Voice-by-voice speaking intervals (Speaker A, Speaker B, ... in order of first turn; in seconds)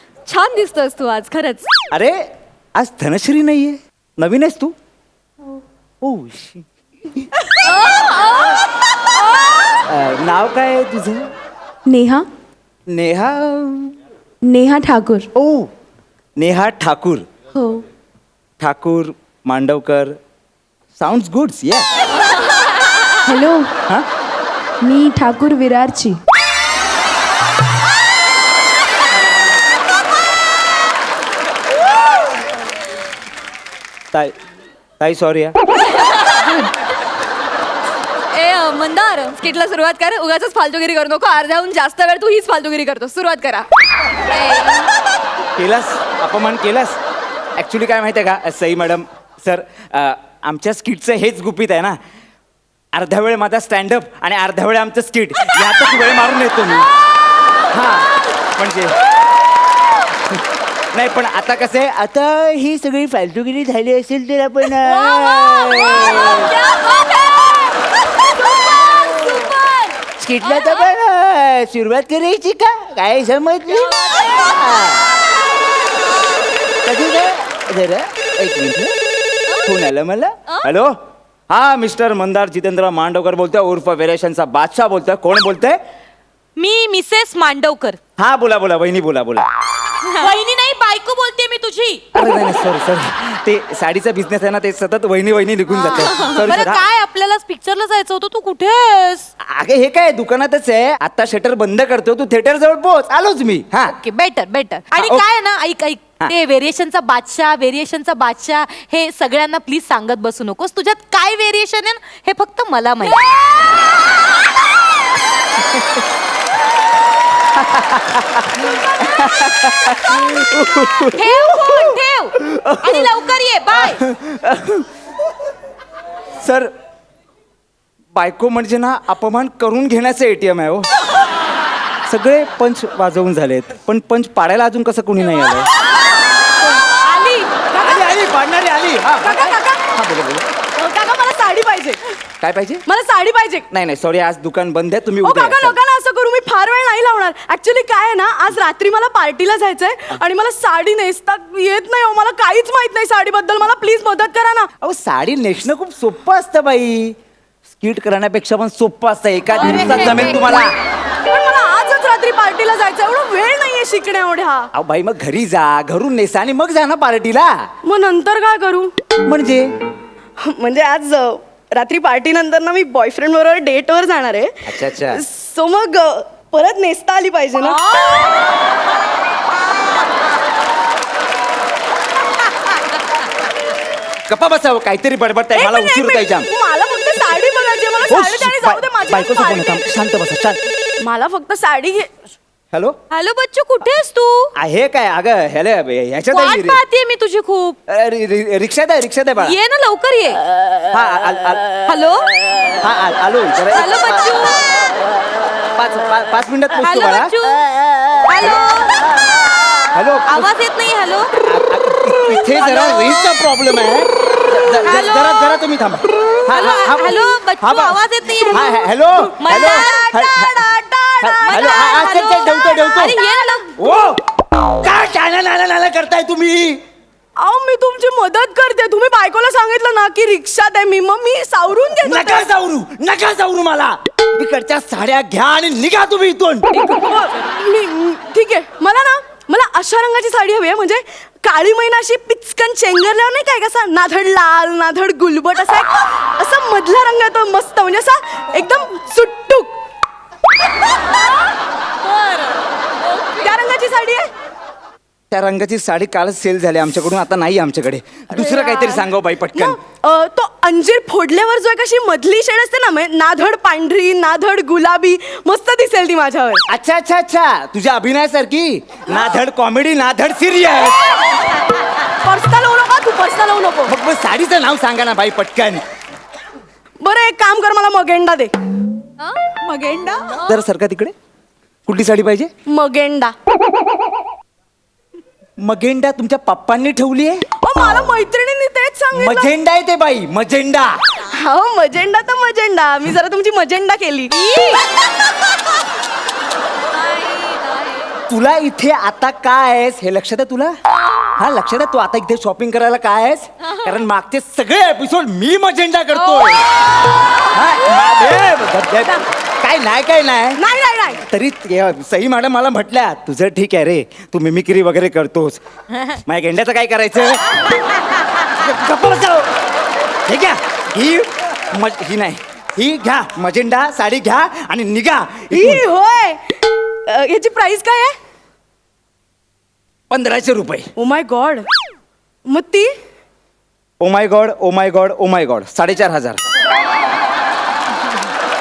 Speaker A: 0.3-1.7, 7.6-8.5, 36.2-36.6, 38.4-42.2, 44.3-44.9, 64.8-70.9, 73.7-75.0, 86.5-88.0, 90.0-92.0, 95.7-99.3, 103.8-113.2, 121.1-124.0, 159.5-160.7, 177.6-178.4, 193.1-194.5, 196.3-197.8, 199.4-200.4, 201.8-202.3, 203.7-204.7, 206.8-209.1, 210.3-211.3, 212.6-213.4, 214.8-215.6, 216.4-218.8, 219.4-220.1, 221.4-223.7, 252.0-252.6, 253.1-253.4, 294.3-294.9, 296.9-298.2, 301.0-301.3, 306.1-307.2
Speaker B: 2.8-4.7, 6.0-7.3, 9.8-11.3, 12.9-13.9, 15.3-15.7, 16.4-17.2, 18.6-20.2, 21.0-21.9, 35.0-35.5, 45.6-47.0, 47.5-52.0, 52.9-56.9, 57.7-59.0, 60.9-66.5, 70.2-75.0, 76.8-78.9, 79.6-81.0, 81.5-85.8, 88.2-89.5, 92.1-96.8, 99.4-104.0, 104.9-105.2, 117.5-123.2, 123.7-124.9, 126.4-126.7, 128.1-130.9, 132.1-135.7, 137.8-140.5, 142.4-142.8, 143.7-145.8, 154.8-157.1, 157.7-160.7, 164.7-167.5, 169.2-169.7, 174.7-175.2, 184.3-186.5, 188.1-190.6, 194.5-196.8, 197.9-199.6, 200.9-201.7, 202.8-204.4, 205.7-207.3, 209.9-210.5, 211.4-220.6, 221.2-223.2, 223.8-224.2, 224.8-226.8, 232.0-236.7, 255.3-259.8, 266.7-271.0, 273.9-275.8, 280.4-281.1, 281.9-282.5, 285.6-287.4, 289.1-291.0, 298.3-300.8, 301.4-306.7, 307.5-310.6, 311.2-317.6, 318.4-319.5, 320.3-325.9, 330.1-330.9, 334.0-336.4
Speaker C: 11.9-12.3, 14.5-15.3, 17.6-17.8, 23.2-23.7, 24.8-26.2
Speaker D: 38.5-43.6
Speaker E: 136.8-138.3, 139.2-139.8, 140.8-142.0, 142.8-143.7, 145.2-154.7, 161.2-164.7, 167.8-168.9, 170.4-177.8, 185.5-189.7, 191.0-192.1, 218.5-223.6, 227.4-232.5, 236.7-249.8, 253.4-254.2, 258.3-266.6, 272.2-273.9, 277.0-278.5, 279.5-280.4, 282.7-283.3, 287.6-289.5, 291.2-294.3, 310.6-311.2, 325.5-326.5, 327.1-328.1, 330.9-331.7, 332.4-332.9